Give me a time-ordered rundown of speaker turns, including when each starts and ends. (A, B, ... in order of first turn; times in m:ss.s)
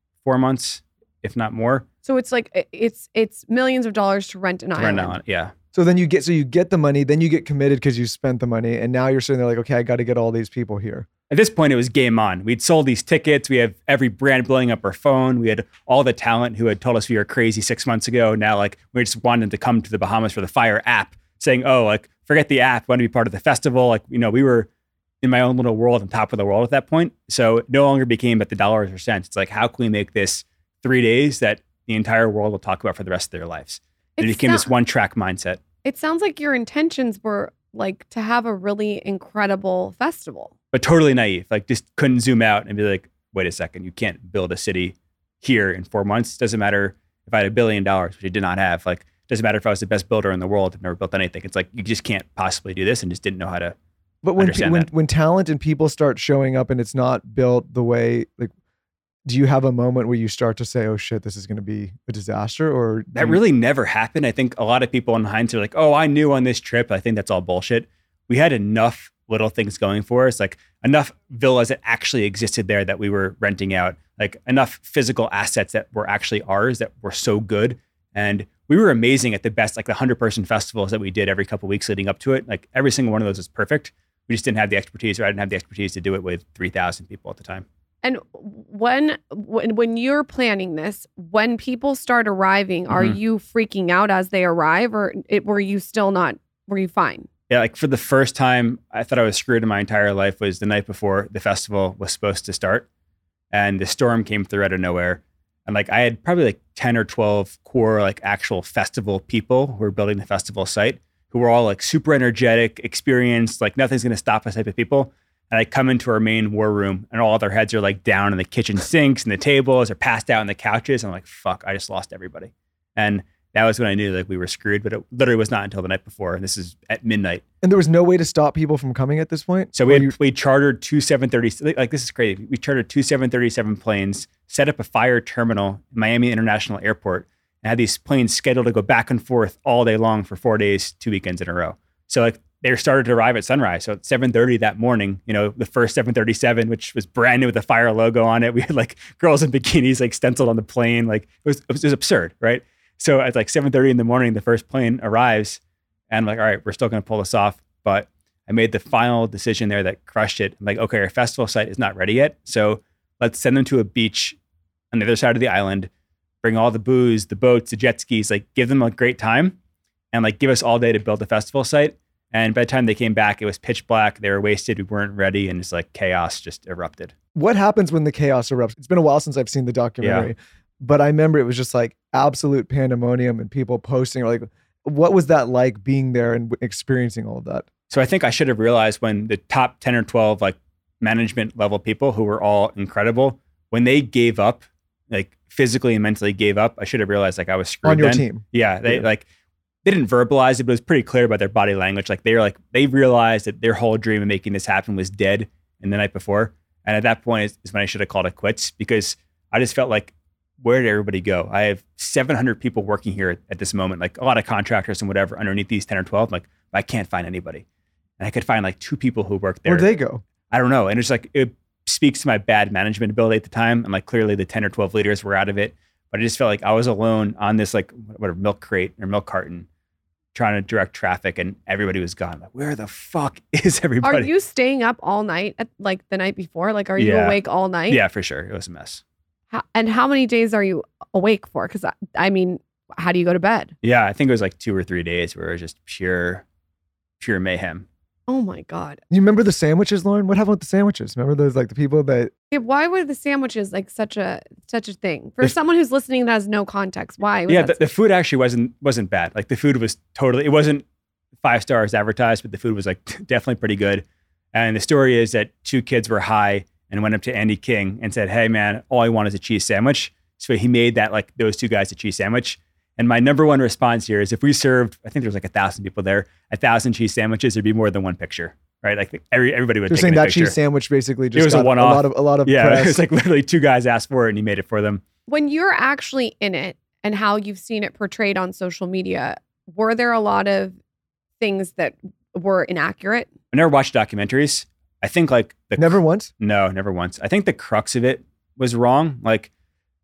0:00.2-0:01.8 A
0:02.0-0:05.1 B
0:04.8-0:05.5 A
0:05.7-0:11.1 C
0:11.3-0:24.7 A
0:25.2-0:35.6 A
0:34.2-0:34.7 B
0:35.8-0:40.5 B
0:40.7-0:53.8 A
0:54.2-0:58.5 C
0:54.4-0:54.9 A
0:59.2-1:03.4 C
1:03.1-1:27.6 A
1:28.0-1:37.3 B
1:32.9-1:33.2 A
1:37.5-1:42.9 A
1:43.5-2:07.4 A
2:07.6-2:10.1 C
2:09.7-2:44.4 A
2:44.9-2:45.9 A
2:46.4-2:49.6 A
2:50.1-2:57.1 A
2:57.3-3:07.7 C
3:00.0-3:00.3 A
3:07.9-3:19.2 A
3:17.8-3:19.0 C
3:19.8-3:37.6 A
3:38.2-3:39.9 A
3:39.7-3:40.2 C
3:40.5-3:49.7 A
3:50.3-3:54.3 A
3:54.0-3:58.0 B
3:57.0-3:59.0 A
3:59.5-4:03.7 B
4:03.8-4:06.4 A
4:07.2-4:07.8 A
4:08.3-4:09.0 B
4:09.1-4:12.3 C
4:12.5-4:17.8 B
4:17.5-4:20.8 A
4:21.4-4:40.6 A
4:39.9-4:43.0 C
4:41.3-4:45.0 A
4:45.3-4:50.8 B
4:51.4-4:53.3 B
4:53.5-4:59.5 A
4:55.8-4:56.3 C